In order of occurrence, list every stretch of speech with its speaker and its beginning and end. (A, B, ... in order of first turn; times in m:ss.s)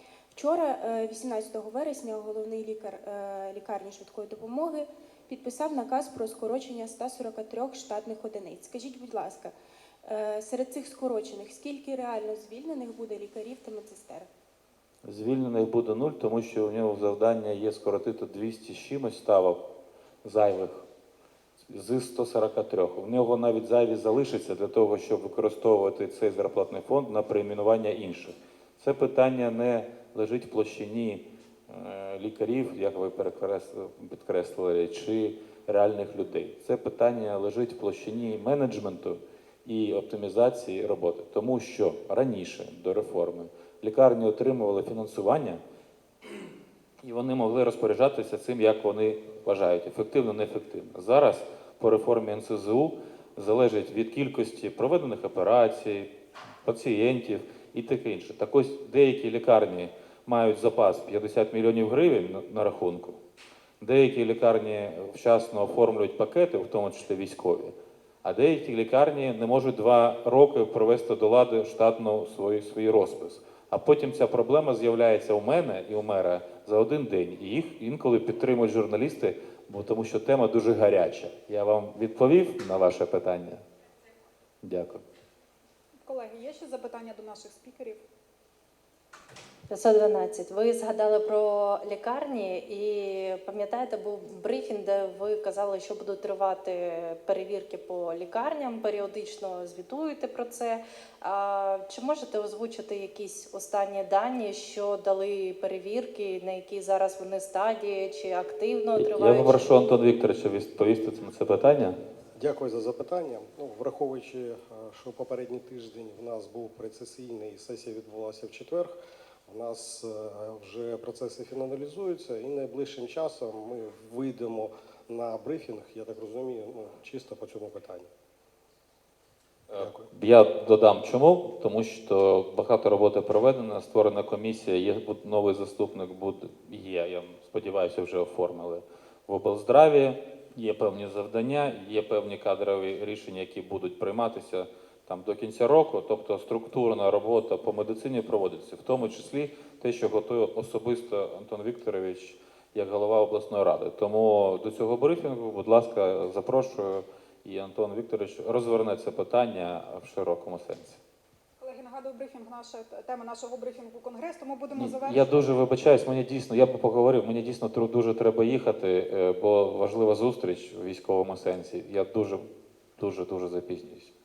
0:00.3-0:09.5 A
0:10.0-0:14.3 A
0:15.0-0:19.6 B
0:20.2-0:20.8 B
0:21.7-0:45.6 B
0:47.0-0:56.1 B
0:56.6-1:03.2 B
1:03.8-1:23.6 B
1:24.6-1:25.0 B
1:26.1-1:28.0 C
1:29.7-1:50.0 D
1:49.0-1:52.0 B
1:52.4-1:59.0 E
1:59.5-2:08.1 E
2:09.7-2:41.0 B
2:09.7-2:10.1 E
2:41.6-2:45.6 C
2:44.8-2:52.5 B
2:53.0-2:54.1 B